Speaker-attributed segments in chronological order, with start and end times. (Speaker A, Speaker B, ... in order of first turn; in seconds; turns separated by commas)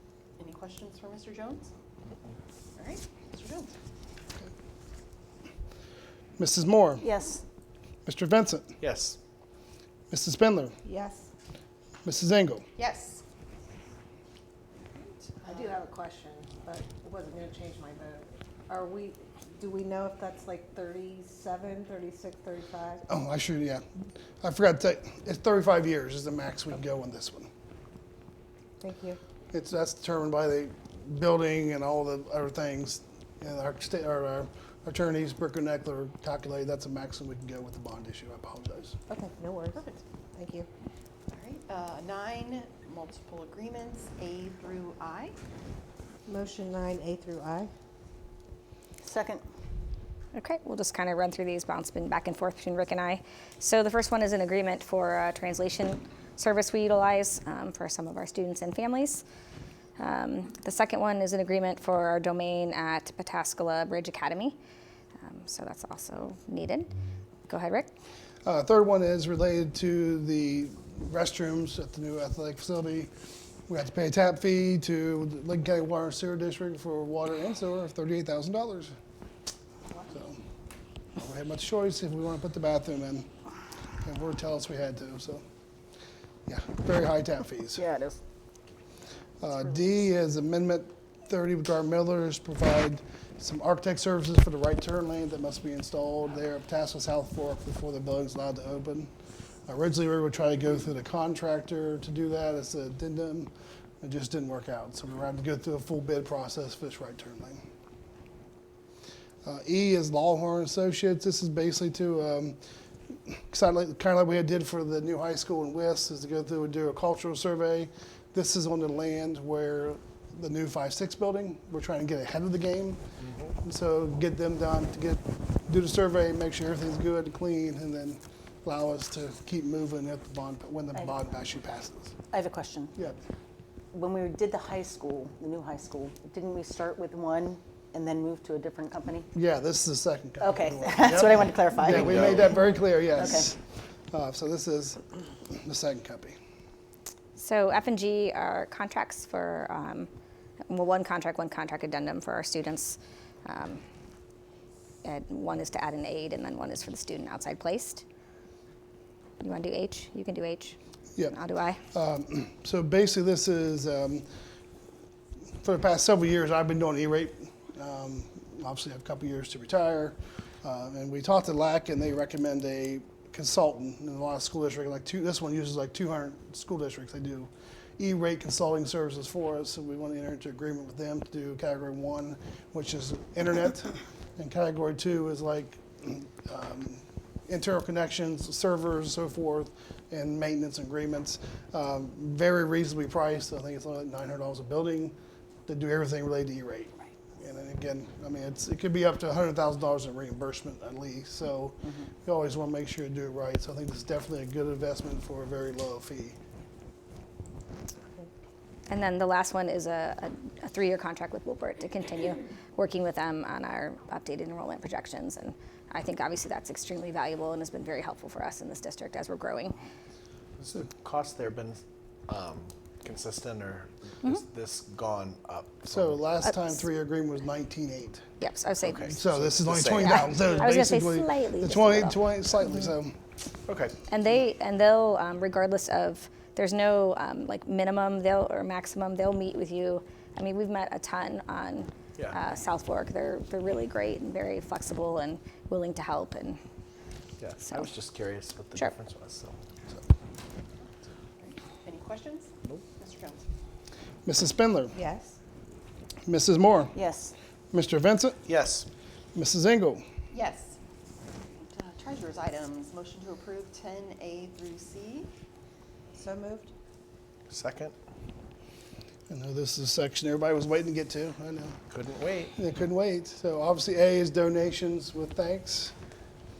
Speaker A: 0.4-1.7, Speaker A: 2.8-3.7, Speaker B: 6.4-7.1, Speaker C: 7.0-7.4, Speaker B: 8.1-8.7, Speaker D: 8.8-9.2, Speaker B: 10.1-10.8, Speaker E: 10.8-11.3, Speaker B: 12.1-12.6, Speaker A: 12.8-13.2, Speaker A: 14.9-15.8, Speaker E: 15.4-23.0, Speaker B: 23.1-23.8, Speaker B: 24.4-27.5, Speaker E: 28.8-29.2, Speaker B: 29.5-39.0, Speaker E: 39.1-40.7, Speaker A: 39.8-40.0, Speaker A: 41.3-45.4, Speaker E: 46.3-47.7, Speaker C: 49.0-49.4, Speaker F: 50.3-59.2, Speaker F: 60.0-64.6, Speaker F: 65.2-66.9, Speaker F: 67.5-67.9, Speaker B: 68.5-73.1, Speaker B: 73.7-78.9, Speaker B: 80.1-80.4, Speaker B: 81.2-83.3, Speaker B: 84.0-85.4, Speaker B: 86.5-87.8, Speaker C: 87.8-88.2, Speaker B: 89.4-99.1, Speaker B: 99.7-107.6, Speaker B: 109.4-112.6, Speaker B: 113.3-123.0, Speaker B: 123.6-132.1, Speaker C: 132.3-132.9, Speaker C: 133.9-139.3, Speaker B: 139.3-143.6, Speaker C: 140.4-142.6, Speaker C: 143.2-143.5, Speaker B: 144.1-146.4, Speaker F: 147.4-150.1, Speaker F: 150.7-153.8, Speaker F: 155.0-158.0, Speaker F: 159.4-161.8, Speaker B: 161.9-164.2, Speaker B: 165.6-195.2, Speaker B: 195.7-206.4, Speaker F: 208.9-219.8, Speaker D: 220.6-226.2, Speaker B: 225.9-228.2, Speaker F: 226.4-226.8, Speaker F: 228.4-229.2, Speaker D: 228.8-230.3, Speaker B: 229.1-233.2, Speaker F: 230.0-232.8, Speaker D: 233.7-234.0, Speaker F: 234.1-246.6, Speaker D: 247.4-249.6, Speaker A: 250.8-253.4, Speaker B: 254.2-254.9, Speaker E: 254.9-255.4, Speaker B: 256.2-257.0, Speaker C: 256.9-257.3, Speaker B: 257.7-258.4, Speaker D: 258.5-258.9, Speaker B: 259.3-260.0, Speaker A: 260.3-265.3, Speaker E: 266.2-266.7, Speaker D: 267.5-267.9, Speaker B: 269.3-271.8, Speaker D: 271.9-272.6, Speaker B: 272.6-275.9